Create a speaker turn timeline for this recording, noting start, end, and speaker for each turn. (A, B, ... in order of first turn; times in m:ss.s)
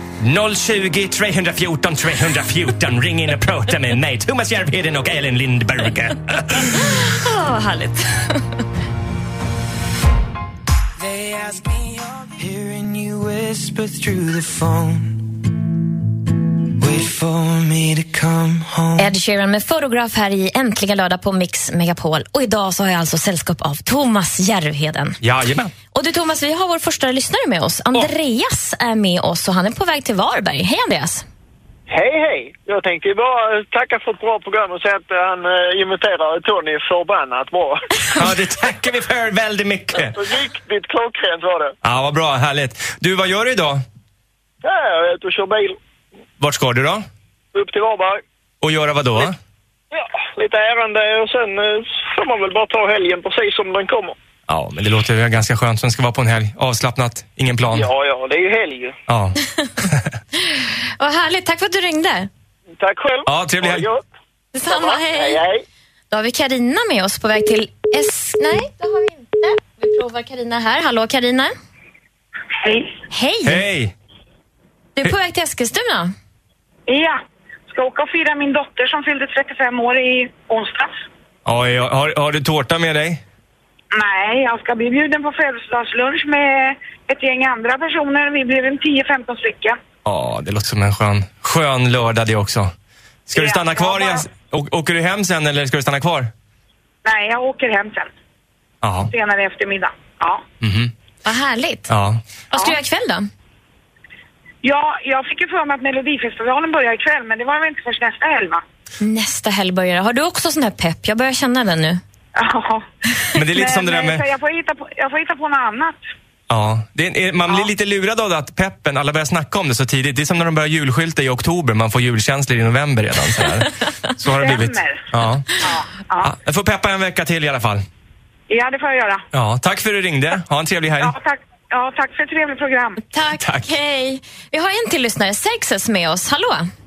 0:00.2-0:07.1 A
0:06.7-0:08.6 B
0:11.0-0:15.4 C
0:16.8-0:19.1 C
0:19.0-0:25.2 B
0:25.2-0:25.7 A
0:25.9-0:31.2 B
0:31.9-0:37.9 D
0:38.1-0:40.2 A
0:40.2-0:41.7 D
0:41.8-0:43.8 A
0:44.6-0:45.8 D
0:46.4-0:47.0 A
0:47.5-0:48.2 D
0:48.6-0:49.4 A
0:49.9-0:54.2 D
0:54.5-0:57.9 A
0:57.7-0:59.0 D
0:59.1-1:00.2 A
1:00.4-1:02.3 B
1:02.8-1:04.0 D
1:03.2-1:03.9 A
1:04.5-1:05.4 B
1:04.7-1:05.6 D
1:06.1-1:11.5 B
1:12.6-1:12.9 E
1:13.1-1:13.6 B
1:13.4-1:13.9 A
1:15.0-1:16.1 B
1:16.9-1:20.9 E
1:21.4-1:23.2 A
1:23.9-1:29.8 E
1:30.0-1:32.7 A
1:33.3-1:36.3 A
1:33.3-1:34.2 E
1:37.0-1:38.1 E
1:38.8-1:39.1 A
1:39.1-1:40.4 E
1:40.6-1:40.9 A
1:41.2-1:41.9 B
1:41.9-1:42.2 A
1:42.5-1:43.3 B
1:44.6-1:48.6 E
1:49.0-1:52.0 B
1:52.4-1:56.0 E
1:53.3-1:54.2 A
1:56.5-2:05.5 A
2:04.2-2:06.3 E
2:06.2-2:07.8 A
2:08.5-2:09.2 E
2:09.3-2:11.1 A
2:11.0-2:13.0 E
2:13.0-2:16.7 B
2:13.4-2:13.7 A